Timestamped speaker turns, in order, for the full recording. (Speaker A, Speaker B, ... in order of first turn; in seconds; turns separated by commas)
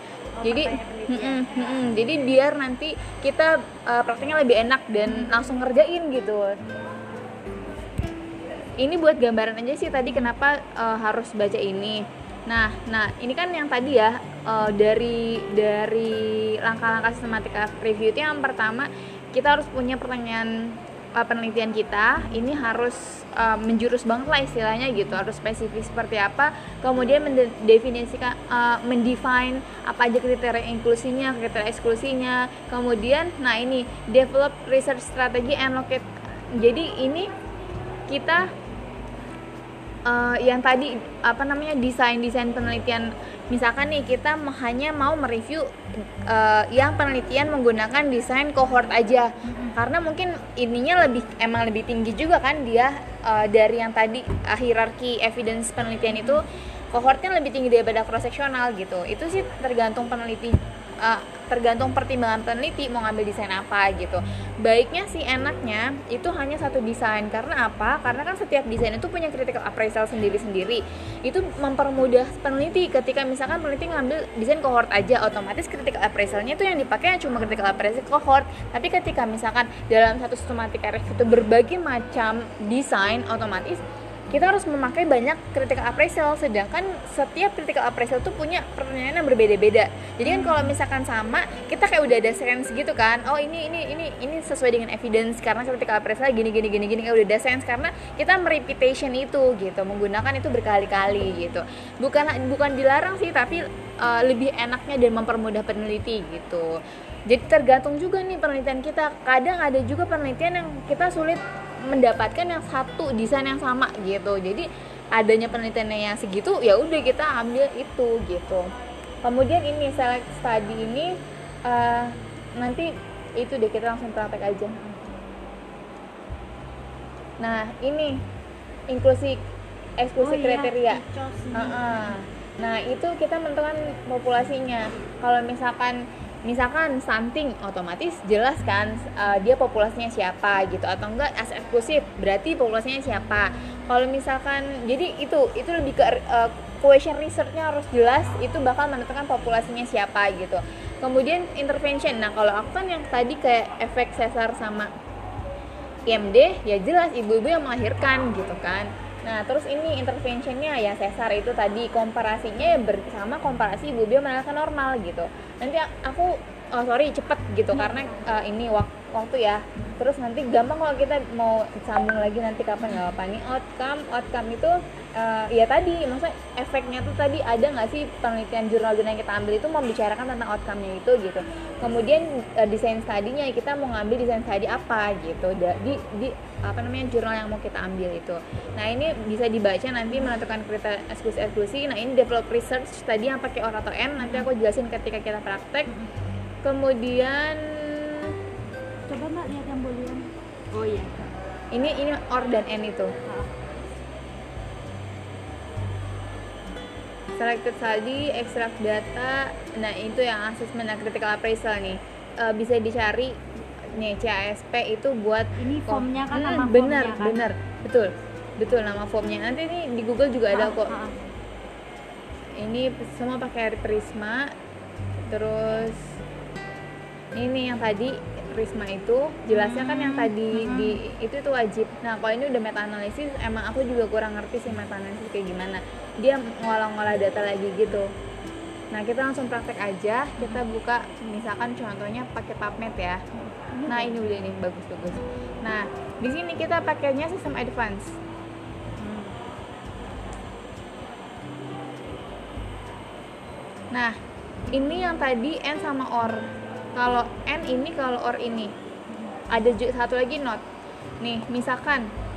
Speaker A: 0.4-1.4, Speaker B: 0.4-6.6, Speaker A: 5.0-5.3, Speaker B: 8.8-37.3, Speaker B: 38.1-38.5, Speaker B: 40.1-45.7, Speaker B: 46.3-118.7, Speaker A: 49.4-49.8, Speaker A: 56.1-56.4, Speaker A: 90.2-90.7, Speaker B: 119.2-121.1, Speaker B: 121.7-124.8, Speaker B: 127.4-128.2, Speaker B: 128.9-129.4, Speaker B: 130.0-131.0, Speaker A: 130.2-132.2, Speaker B: 131.5-154.9, Speaker B: 156.1-195.9, Speaker A: 167.7-168.2, Speaker A: 194.2-194.5, Speaker B: 196.6-198.3, Speaker A: 199.1-201.3, Speaker B: 201.7-203.1, Speaker A: 203.2-203.5, Speaker B: 207.4-220.9, Speaker A: 215.6-217.4, Speaker A: 220.5-221.2, Speaker B: 222.6-224.5, Speaker B: 225.2-226.1, Speaker B: 227.3-238.1, Speaker A: 229.5-231.0, Speaker B: 238.9-243.2, Speaker A: 243.3-244.2, Speaker B: 243.8-248.2, Speaker A: 249.0-249.4, Speaker B: 254.7-258.7, Speaker A: 259.1-259.4, Speaker B: 259.5-260.6, Speaker B: 261.2-262.1